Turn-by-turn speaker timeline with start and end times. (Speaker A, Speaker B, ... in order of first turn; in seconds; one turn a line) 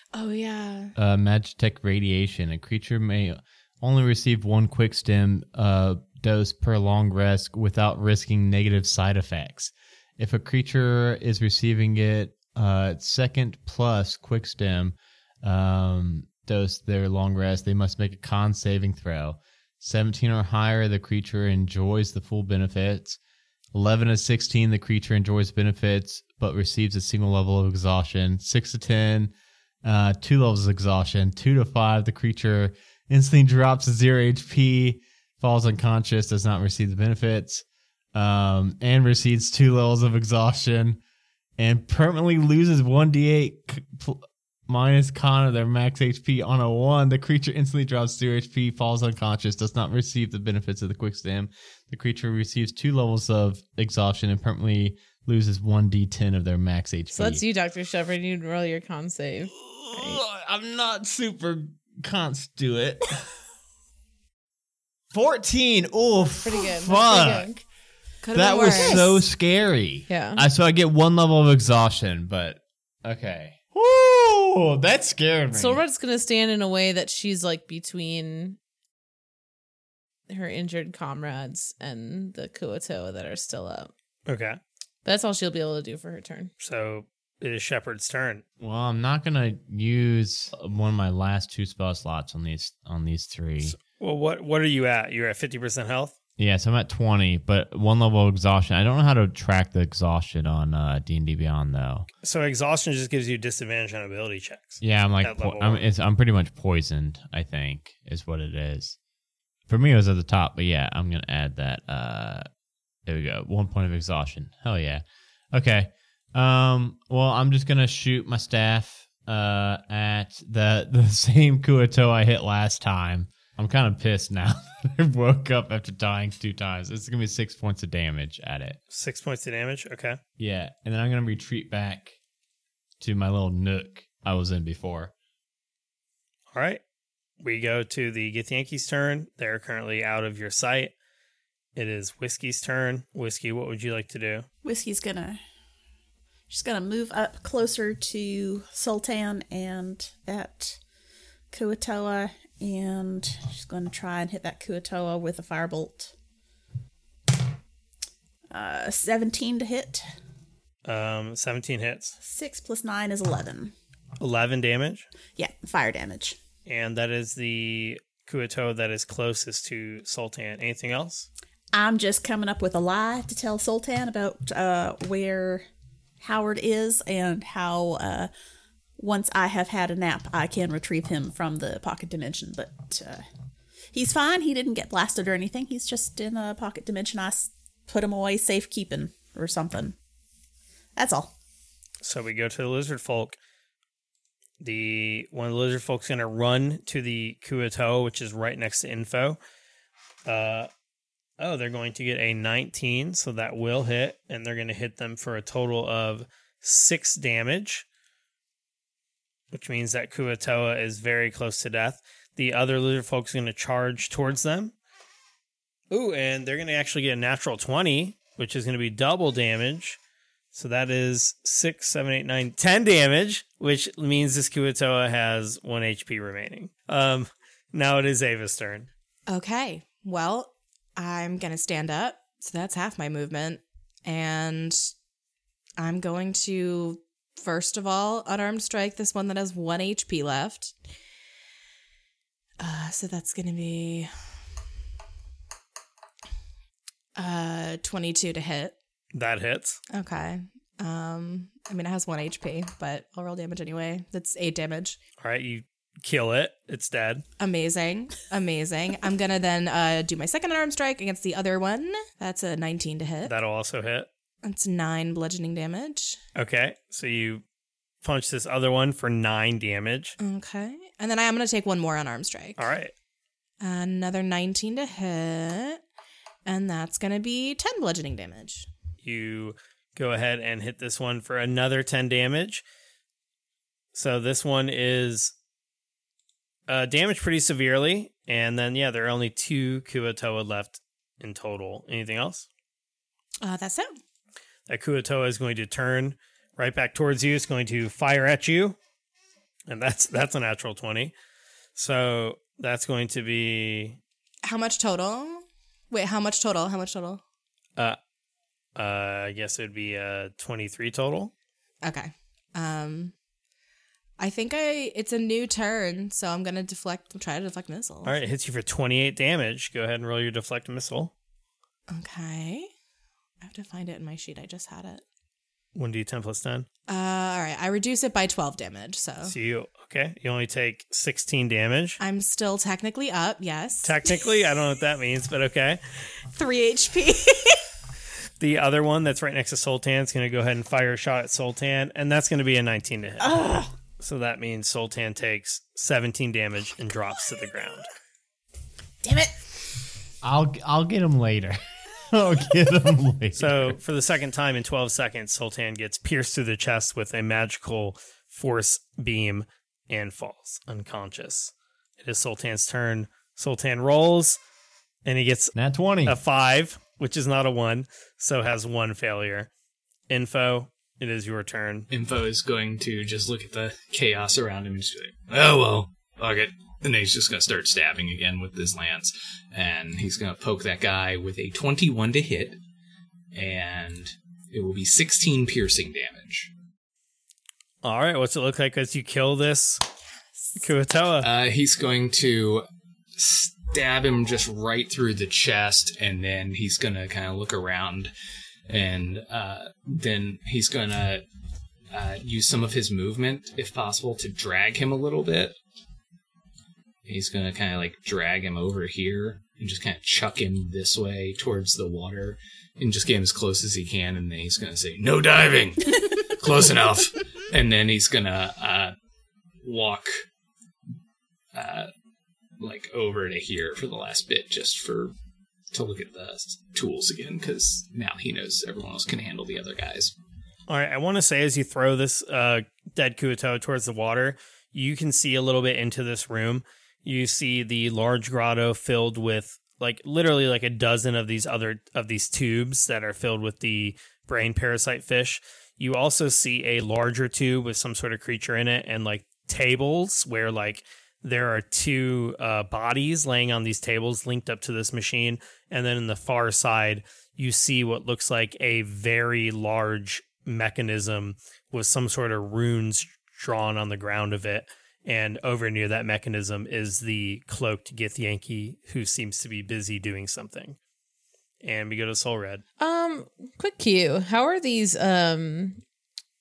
Speaker A: 0.1-0.9
Speaker B: 0.9-23.2
Speaker B: 23.7-29.3
Speaker B: 29.8-41.0
Speaker B: 41.6-57.4
Speaker C: 57.1-60.2
Speaker B: 59.6-63.2
Speaker B: 65.1-67.5
Speaker C: 66.4-67.6
Speaker A: 68.2-69.2
Speaker B: 68.3-75.8
Speaker C: 70.1-70.5
Speaker C: 75.5-78.6
Speaker C: 80.3-83.9
Speaker D: 84.3-84.6
Speaker C: 85.0-86.5
Speaker D: 86.6-88.4
Speaker B: 88.6-93.8
Speaker D: 93.6-96.1
Speaker B: 96.4-102.1
Speaker D: 102.2-105.8
Speaker B: 104.8-109.0
Speaker B: 109.7-112.5
Speaker B: 113.0-128.8
Speaker D: 128.9-130.2
Speaker B: 130.4-132.2
Speaker B: 133.0-135.1
Speaker D: 136.5-136.8
Speaker D: 137.4-140.9
Speaker D: 141.8-144.5
Speaker E: 144.6-145.4
Speaker E: 146.5-150.8
Speaker E: 151.5-156.1
Speaker E: 158.5-160.0
Speaker D: 160.8-162.1
Speaker E: 162.2-163.7
Speaker D: 164.2-165.1
Speaker E: 165.4-166.4
Speaker D: 166.7-171.3
Speaker E: 171.7-175.6
Speaker E: 176.2-178.3
Speaker E: 179.0-183.2
Speaker E: 183.9-189.9
Speaker E: 190.9-191.3
Speaker D: 192.0-193.4
Speaker D: 194.6-199.4
Speaker D: 200.2-200.7
Speaker D: 201.4-207.8
Speaker D: 209.5-214.7
Speaker D: 215.9-220.0
Speaker D: 220.5-228.9
Speaker A: 229.3-234.9
Speaker A: 235.8-240.8
Speaker A: 242.6-244.1
Speaker A: 247.2-248.7
Speaker D: 249.1-249.8
Speaker A: 249.9-255.0
Speaker D: 255.2-257.2
Speaker A: 257.4-263.3
Speaker D: 263.2-264.1
Speaker A: 264.4-266.2
Speaker D: 266.4-267.4
Speaker D: 268.0-270.1
Speaker A: 270.2-272.7
Speaker D: 272.6-272.9
Speaker A: 273.6-275.8
Speaker A: 276.4-278.7
Speaker D: 279.0-282.6
Speaker D: 283.9-285.3
Speaker D: 286.7-292.5
Speaker A: 293.4-293.9
Speaker D: 294.7-298.8
Speaker D: 299.7-301.1
Speaker D: 301.8-304.0
Speaker A: 304.4-307.2
Speaker D: 308.8-311.3
Speaker A: 311.8-313.1
Speaker A: 314.2-318.1
Speaker D: 318.0-321.1
Speaker A: 321.9-322.7
Speaker A: 323.4-325.0
Speaker D: 325.8-326.6
Speaker A: 326.9-329.3
Speaker D: 329.2-332.0
Speaker A: 332.0-334.1
Speaker D: 333.8-335.8
Speaker A: 336.3-337.6
Speaker D: 338.4-343.3
Speaker E: 343.2-343.7
Speaker D: 344.0-347.9
Speaker E: 349.0-349.4
Speaker B: 350.2-351.6
Speaker B: 352.1-353.8
Speaker D: 353.4-364.4
Speaker D: 365.1-365.5
Speaker B: 365.5-366.2
Speaker D: 366.0-369.5
Speaker D: 370.1-371.9
Speaker F: 371.9-382.6
Speaker F: 383.3-386.5
Speaker D: 387.8-389.8
Speaker D: 390.6-391.3
Speaker F: 391.2-398.1
Speaker F: 398.7-401.2
Speaker F: 401.9-405.6
Speaker F: 407.1-418.9
Speaker F: 419.6-420.2
Speaker F: 421.5-421.9
Speaker F: 422.6-425.1
Speaker F: 425.7-430.1
Speaker D: 430.7-470.8
Speaker D: 471.6-472.6
Speaker C: 472.8-475.8